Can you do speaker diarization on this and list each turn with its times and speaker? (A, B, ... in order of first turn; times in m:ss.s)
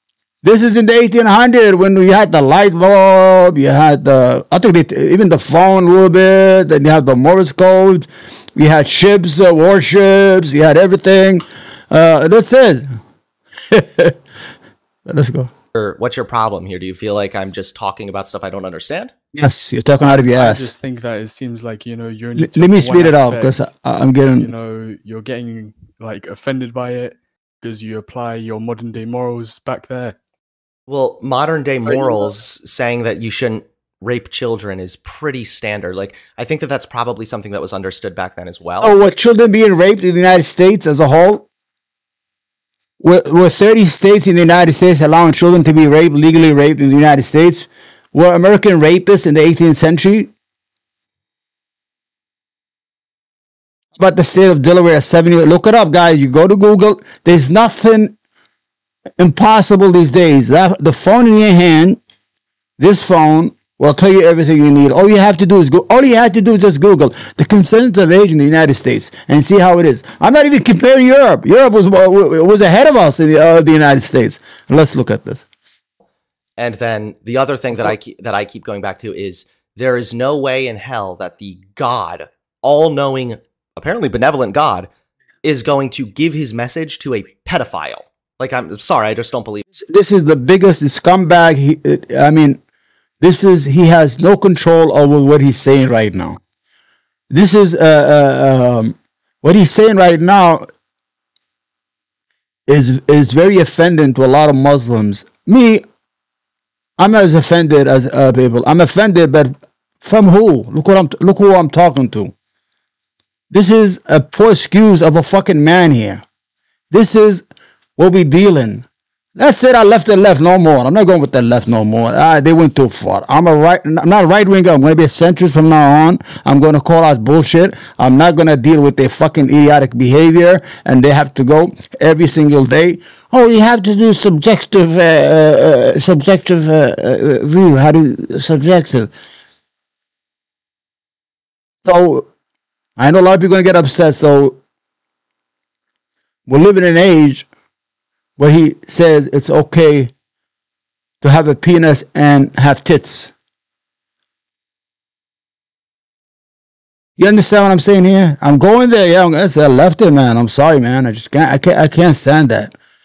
0:00.4-0:13.0 A
0:13.7-0:14.2 A
0:15.1-0:15.5 A
0:15.7-0:19.1 B
0:19.3-0:20.7 A
0:20.0-0:23.7 C
0:22.4-0:24.5 A
0:24.4-0:30.2 C
0:30.9-0:38.9 B
0:31.9-0:32.3 C
0:38.8-0:41.5 A
0:43.0-0:50.3 A
0:54.0-0:58.1 A
0:59.2-1:02.0 A
1:02.8-1:15.4 A
1:16.6-1:24.9 B
1:25.4-1:29.6 B
1:29.8-1:32.6 A
1:33.2-1:36.4 A
1:37.3-1:40.7 A
1:42.7-1:45.8 A
1:47.0-1:52.3 A
1:53.5-1:56.2 A
1:56.9-1:57.4 A
1:58.0-1:58.8 A
1:59.4-2:19.1 A
2:21.8-2:22.3 A
2:23.0-2:24.6 A
2:26.5-2:27.5 A
2:28.4-2:30.1 A
2:31.2-2:33.3 A
2:37.2-2:42.7 A